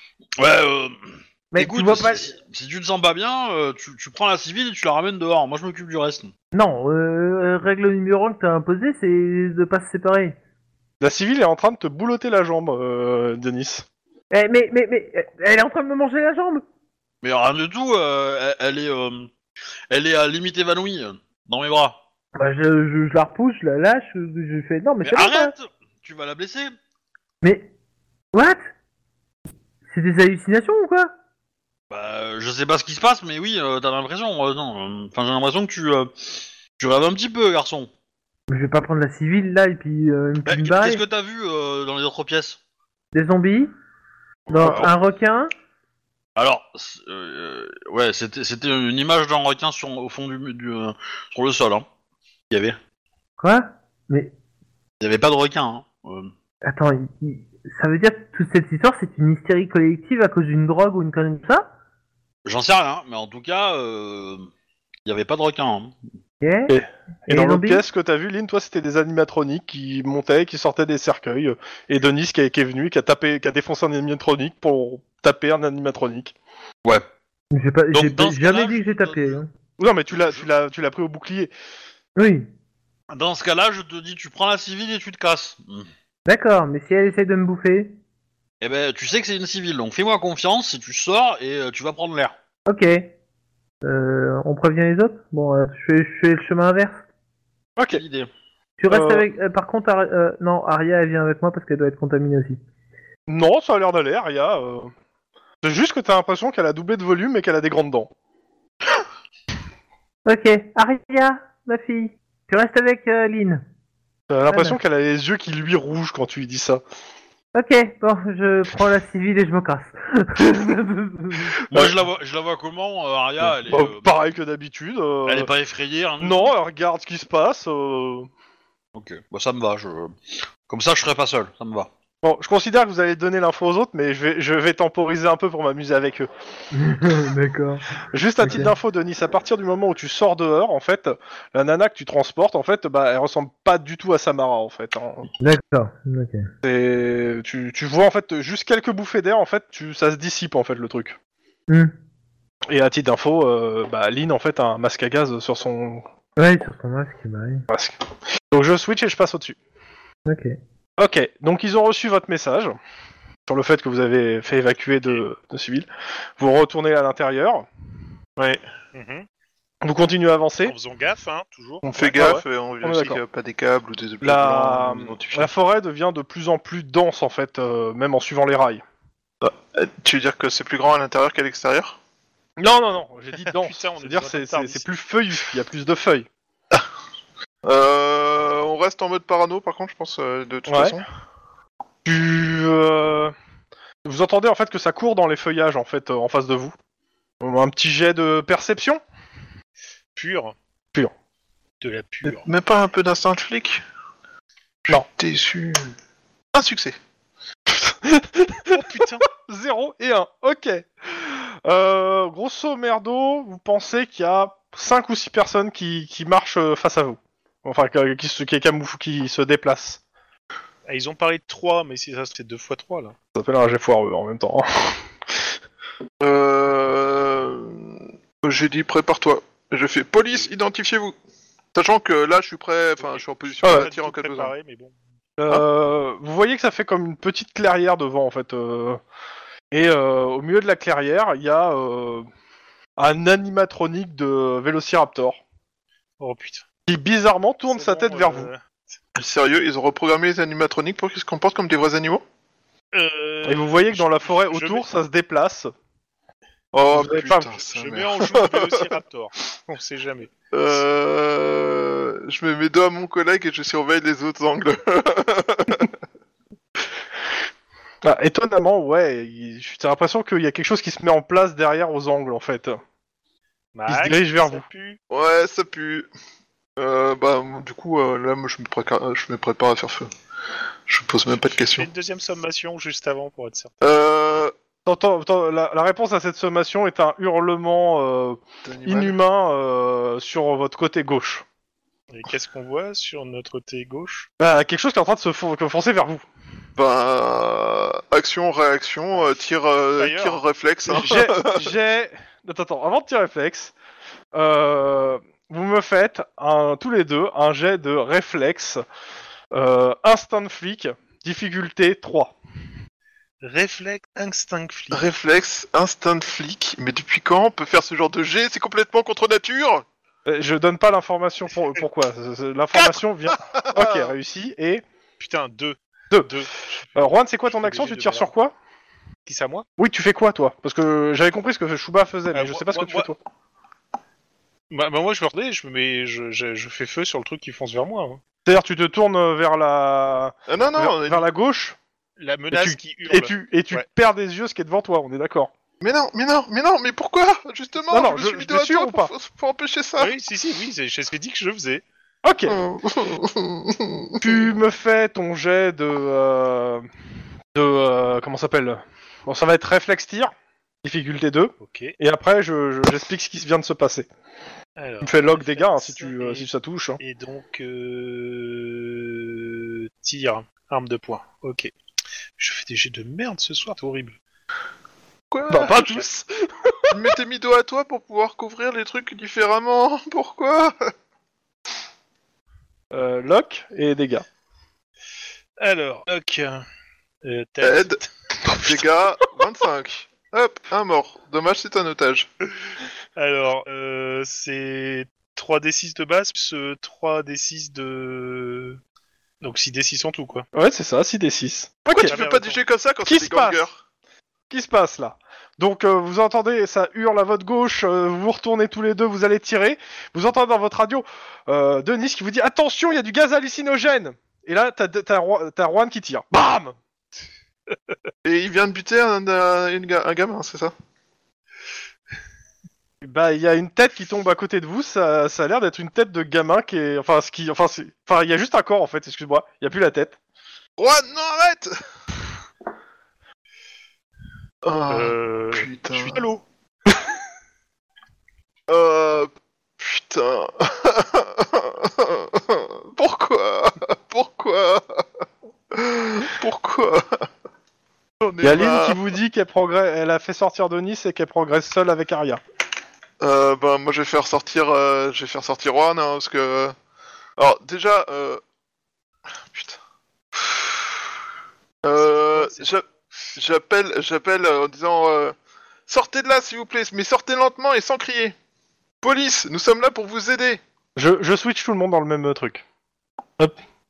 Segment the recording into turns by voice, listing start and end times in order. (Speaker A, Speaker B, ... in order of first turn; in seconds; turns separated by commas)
Speaker A: 0.4-6.3, Speaker B: 1.5-2.2, Speaker B: 6.5-10.3, Speaker C: 11.0-13.8, Speaker B: 14.3-16.6, Speaker A: 17.2-19.3, Speaker A: 19.9-22.0, Speaker B: 22.4-25.5, Speaker A: 25.0-26.7, Speaker B: 27.4-27.7, Speaker B: 28.3-28.6, Speaker B: 29.9-31.1, Speaker A: 31.9-37.9, Speaker B: 38.5-41.0, Speaker A: 40.5-42.6, Speaker B: 43.1-43.7, Speaker B: 44.5-45.5, Speaker A: 44.6-44.9, Speaker A: 46.4-51.9, Speaker A: 52.5-52.8, Speaker B: 53.4-54.3, Speaker A: 55.0-56.3, Speaker B: 56.6-61.7, Speaker A: 62.5-64.5, Speaker A: 65.0-66.0, Speaker B: 66.4-66.7, Speaker C: 66.7-76.3, Speaker B: 67.3-67.8, Speaker B: 77.5-79.5, Speaker A: 77.9-79.4, Speaker C: 79.8-81.5, Speaker A: 80.1-80.4, Speaker B: 82.2-82.5, Speaker A: 83.1-85.9, Speaker B: 86.2-87.9, Speaker A: 88.6-92.3, Speaker B: 92.7-93.1, Speaker B: 93.8-97.0, Speaker C: 97.8-98.0, Speaker A: 97.9-98.3, Speaker B: 98.8-102.6, Speaker C: 98.9-99.2, Speaker C: 103.3-104.9, Speaker C: 105.6-108.1, Speaker B: 110.2-113.6, Speaker C: 114.3-116.8, Speaker B: 114.5-114.8, Speaker B: 117.5-121.5, Speaker A: 121.7-124.1, Speaker C: 121.7-122.0, Speaker C: 123.4-125.5, Speaker A: 125.2-126.5, Speaker C: 126.2-128.3, Speaker A: 128.9-131.9, Speaker C: 132.2-136.3, Speaker B: 136.7-137.9, Speaker C: 138.1-145.3, Speaker B: 138.4-138.7, Speaker B: 145.4-146.5, Speaker C: 146.6-151.2, Speaker B: 151.7-151.9, Speaker C: 152.7-156.1, Speaker B: 156.4-157.6, Speaker C: 157.7-158.0, Speaker C: 158.5-159.6, Speaker B: 160.2-160.6, Speaker C: 161.0-162.8, Speaker C: 163.5-167.7, Speaker D: 168.9-169.2, Speaker C: 169.8-170.8, Speaker D: 170.6-172.4, Speaker C: 171.8-173.2, Speaker E: 171.9-175.5, Speaker C: 174.2-178.8, Speaker E: 179.4-182.0, Speaker C: 182.6-186.3, Speaker D: 183.5-184.9, Speaker E: 187.6-191.0, Speaker C: 190.7-191.0, Speaker C: 192.0-193.3, Speaker C: 194.0-196.7, Speaker C: 197.4-199.0, Speaker D: 200.1-200.5, Speaker D: 201.8-202.5, Speaker E: 202.3-203.8, Speaker E: 204.8-205.9, Speaker E: 206.5-207.0, Speaker C: 207.7-208.8, Speaker D: 208.7-209.3, Speaker C: 209.4-220.0, Speaker D: 220.9-223.1, Speaker C: 223.3-225.4, Speaker E: 226.2-231.1, Speaker E: 231.7-234.5, Speaker D: 233.0-234.9, Speaker C: 233.6-233.9, Speaker C: 235.4-239.0, Speaker C: 239.7-242.3, Speaker C: 243.0-245.4, Speaker D: 246.2-246.6, Speaker C: 246.9-248.5, Speaker D: 247.7-248.9, Speaker E: 249.1-252.2, Speaker D: 252.9-254.9, Speaker C: 253.4-255.7, Speaker E: 256.7-258.9, Speaker C: 256.9-257.5, Speaker D: 257.3-260.3, Speaker E: 260.5-265.9, Speaker C: 268.0-272.8, Speaker D: 273.7-275.0, Speaker C: 273.9-274.6, Speaker E: 275.1-276.1, Speaker E: 276.8-280.1, Speaker E: 280.9-281.9, Speaker D: 281.3-283.7, Speaker E: 283.8-284.5, Speaker C: 284.9-291.4, Speaker E: 288.6-289.1, Speaker D: 292.1-294.3, Speaker C: 294.4-296.2, Speaker E: 296.8-301.7, Speaker D: 300.0-300.4, Speaker C: 300.9-303.7, Speaker C: 304.3-308.8, Speaker C: 309.5-312.3, Speaker D: 313.4-315.1, Speaker E: 314.9-319.9, Speaker C: 320.2-324.8, Speaker E: 322.8-324.1, Speaker D: 325.2-328.3, Speaker C: 326.1-326.4, Speaker C: 326.9-328.5, Speaker D: 329.2-329.6, Speaker C: 329.8-333.2, Speaker D: 332.3-333.1, Speaker D: 334.7-338.2, Speaker C: 338.4-341.8, Speaker E: 340.5-341.2, Speaker D: 342.2-343.9, Speaker C: 342.5-345.5, Speaker E: 345.8-350.1, Speaker C: 347.9-349.1, Speaker D: 350.0-351.8, Speaker C: 352.2-352.6, Speaker E: 352.4-354.4, Speaker C: 354.2-356.9, Speaker C: 357.5-360.3, Speaker C: 360.8-364.1, Speaker D: 361.6-361.9, Speaker D: 364.8-371.7, Speaker C: 365.0-367.0, Speaker D: 372.4-374.2, Speaker E: 375.3-375.9, Speaker C: 375.5-376.9, Speaker E: 376.9-380.9, Speaker C: 382.9-384.2, Speaker D: 385.6-386.6, Speaker D: 387.2-388.1, Speaker E: 387.6-388.0, Speaker E: 388.6-392.3, Speaker D: 393.2-398.8, Speaker D: 399.4-400.4, Speaker C: 400.5-402.2, Speaker E: 402.0-403.8, Speaker D: 402.0-402.6, Speaker C: 403.1-403.6, Speaker C: 404.5-416.8, Speaker E: 418.2-420.7, Speaker C: 423.0-430.2, Speaker E: 430.8-431.7, Speaker E: 434.6-436.3, Speaker D: 434.9-436.4, Speaker E: 438.7-445.0, Speaker E: 445.7-447.3, Speaker E: 448.2-449.1, Speaker C: 448.4-452.4, Speaker E: 453.2-456.7, Speaker E: 457.4-458.4, Speaker E: 459.4-459.8, Speaker E: 460.4-460.6, Speaker E: 461.8-465.3, Speaker D: 462.0-462.7, Speaker E: 465.9-468.3, Speaker E: 469.0-470.6, Speaker C: 470.9-472.6